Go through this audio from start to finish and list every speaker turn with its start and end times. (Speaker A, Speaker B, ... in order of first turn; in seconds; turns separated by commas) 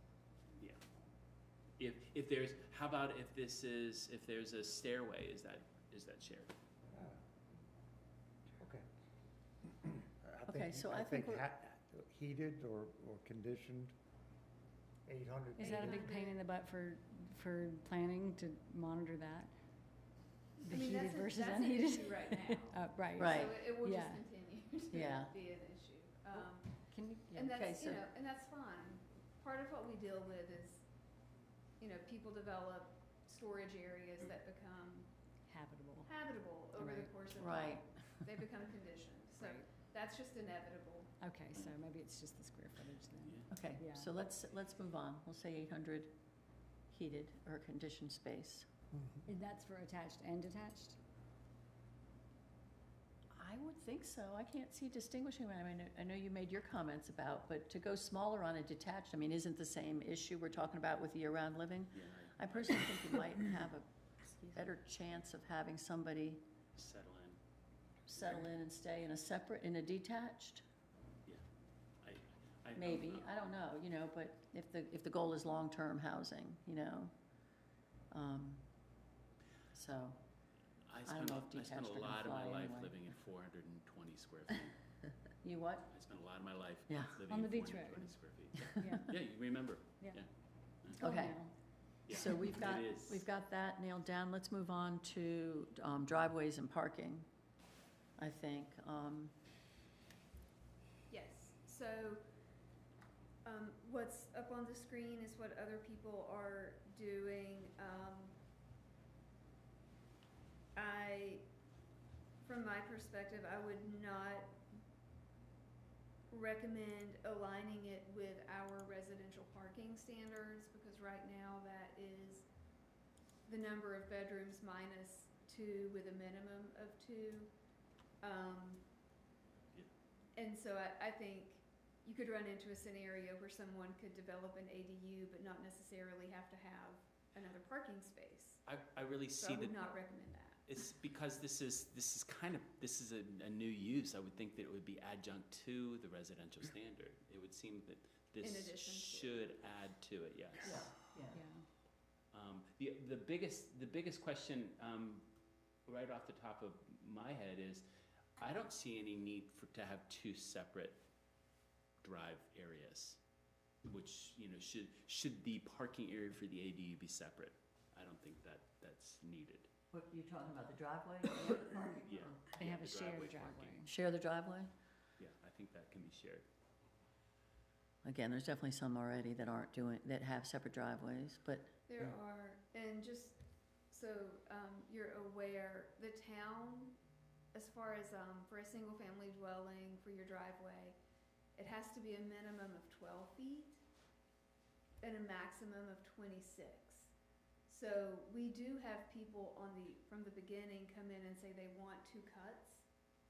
Speaker A: 1.8-6.5, Speaker B: 6.9-7.2, Speaker B: 8.6-8.9, Speaker B: 9.7-13.9, Speaker C: 10.5-11.4, Speaker B: 15.1-16.1, Speaker D: 15.6-19.5, Speaker E: 15.6-16.4, Speaker D: 20.6-24.3, Speaker E: 20.7-30.9, Speaker C: 23.2-23.6, Speaker C: 24.9-25.3, Speaker D: 26.9-27.3, Speaker C: 27.3-28.0, Speaker E: 31.8-35.1, Speaker D: 35.5-36.1, Speaker E: 36.0-41.1, Speaker D: 36.8-37.1, Speaker C: 37.3-38.2, Speaker D: 39.4-39.7, Speaker D: 41.2-44.1, Speaker C: 43.5-46.1, Speaker C: 46.9-48.7, Speaker B: 48.9-49.2, Speaker D: 49.3-51.0, Speaker C: 53.4-66.4, Speaker A: 62.0-62.8, Speaker A: 66.8-67.4, Speaker C: 68.1-70.6, Speaker A: 72.0-73.3, Speaker C: 72.7-77.2, Speaker C: 78.1-78.7, Speaker C: 79.7-80.2, Speaker A: 80.9-84.8, Speaker C: 81.0-83.0, Speaker C: 85.4-86.0, Speaker A: 85.9-90.3, Speaker C: 86.9-87.2, Speaker D: 87.3-88.2, Speaker D: 88.8-89.2, Speaker D: 90.9-91.5, Speaker C: 91.0-91.4, Speaker A: 92.1-93.2, Speaker C: 92.1-97.3, Speaker C: 98.2-99.3, Speaker E: 101.1-102.2, Speaker E: 103.4-108.4, Speaker E: 110.8-111.5, Speaker E: 112.4-114.6, Speaker E: 116.3-122.5, Speaker E: 123.5-127.5, Speaker E: 128.2-128.9, Speaker E: 130.3-138.6, Speaker A: 138.7-139.9, Speaker E: 139.4-140.6, Speaker A: 140.7-150.9, Speaker E: 148.4-149.5, Speaker C: 150.7-151.3, Speaker D: 151.3-151.7, Speaker A: 152.3-155.3, Speaker A: 155.9-157.9, Speaker A: 158.4-161.0, Speaker A: 162.0-163.2, Speaker A: 163.8-169.7, Speaker C: 169.9-172.3, Speaker A: 172.0-173.7, Speaker D: 172.5-173.9, Speaker C: 173.8-174.7, Speaker A: 175.2-176.5, Speaker C: 178.0-181.8, Speaker E: 181.9-183.4, Speaker E: 183.9-187.0, Speaker E: 187.5-191.0, Speaker E: 191.6-193.8, Speaker E: 195.0-197.1, Speaker E: 197.7-202.9